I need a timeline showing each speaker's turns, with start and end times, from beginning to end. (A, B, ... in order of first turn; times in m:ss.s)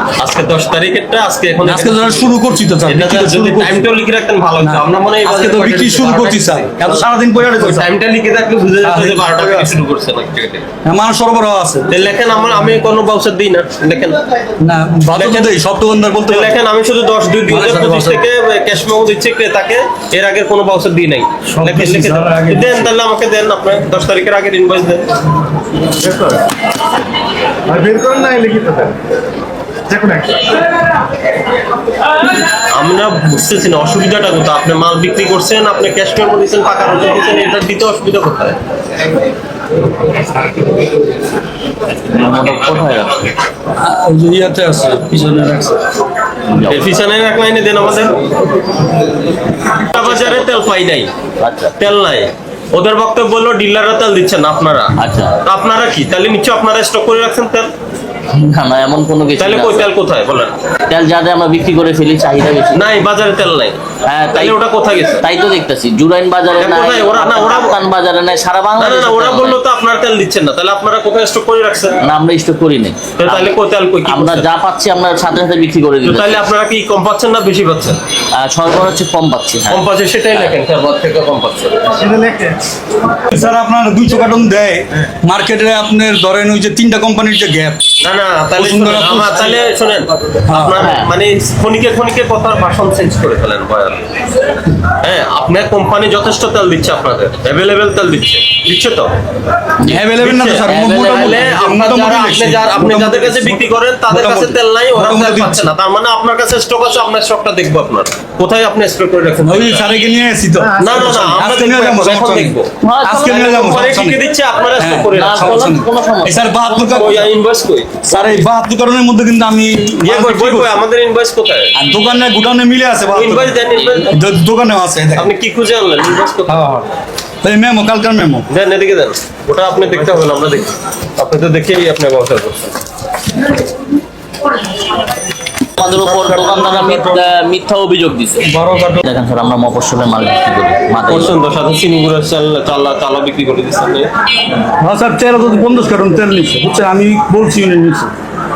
0:00.2-0:02.3 A
0:01.6-0:03.9 B
0:02.8-0:10.6 A
0:04.6-0:07.9 B
0:08.8-0:09.7 B
0:10.8-0:12.0 B
0:11.9-0:14.2 A
0:14.6-0:16.5 B
0:15.1-0:15.6 A
0:16.3-0:25.1 A
0:17.5-0:18.2 B
0:21.4-0:22.9 B
0:26.0-0:26.4 C
0:27.7-0:29.0 C
0:29.9-0:30.6 C
0:32.7-0:38.6 A
0:42.1-0:43.2 D
0:43.8-0:45.8 B
0:46.5-0:46.8 D
0:46.6-0:48.2 A
0:49.9-0:51.1 A
0:49.9-0:50.7 D
0:51.4-0:51.8 D
0:51.8-0:54.9 A
0:55.0-0:55.4 D
0:55.4-0:57.7 A
0:58.3-0:59.9 D
0:59.4-1:00.6 A
1:00.9-1:03.0 D
1:02.7-1:03.8 A
1:04.0-1:04.6 D
1:04.3-1:05.2 A
1:05.2-1:09.6 D
1:06.6-1:07.8 A
1:08.8-1:12.0 A
1:12.0-1:16.4 D
1:13.2-1:14.5 A
1:16.0-1:18.0 A
1:18.4-1:20.5 D
1:19.7-1:21.9 A
1:21.9-1:22.6 C
1:23.3-1:27.8 B
1:28.0-1:34.0 A
1:28.6-1:29.6 B
1:30.5-1:30.9 B
1:30.8-1:31.1 D
1:35.0-1:39.1 A
1:39.8-1:45.7 B
1:40.2-1:49.8 A
1:40.6-1:41.5 D
1:49.4-1:54.2 B
1:50.6-1:51.4 C
1:50.8-1:55.7 A
1:52.8-1:53.3 D
1:54.8-1:57.3 B
1:55.1-1:57.3 D
1:56.9-1:58.0 A
1:58.1-2:00.8 B
1:58.1-1:58.4 D
2:00.0-2:01.7 A
2:01.7-2:05.3 B
2:03.1-2:04.1 A
2:05.2-2:06.6 A
2:06.5-2:06.9 B
2:07.4-2:08.5 B
2:08.5-2:12.7 A
2:15.8-2:18.5 D
2:15.8-2:17.2 B
2:18.4-2:19.0 B
2:19.0-2:21.3 D
2:21.1-2:24.1 A
2:24.8-2:28.1 B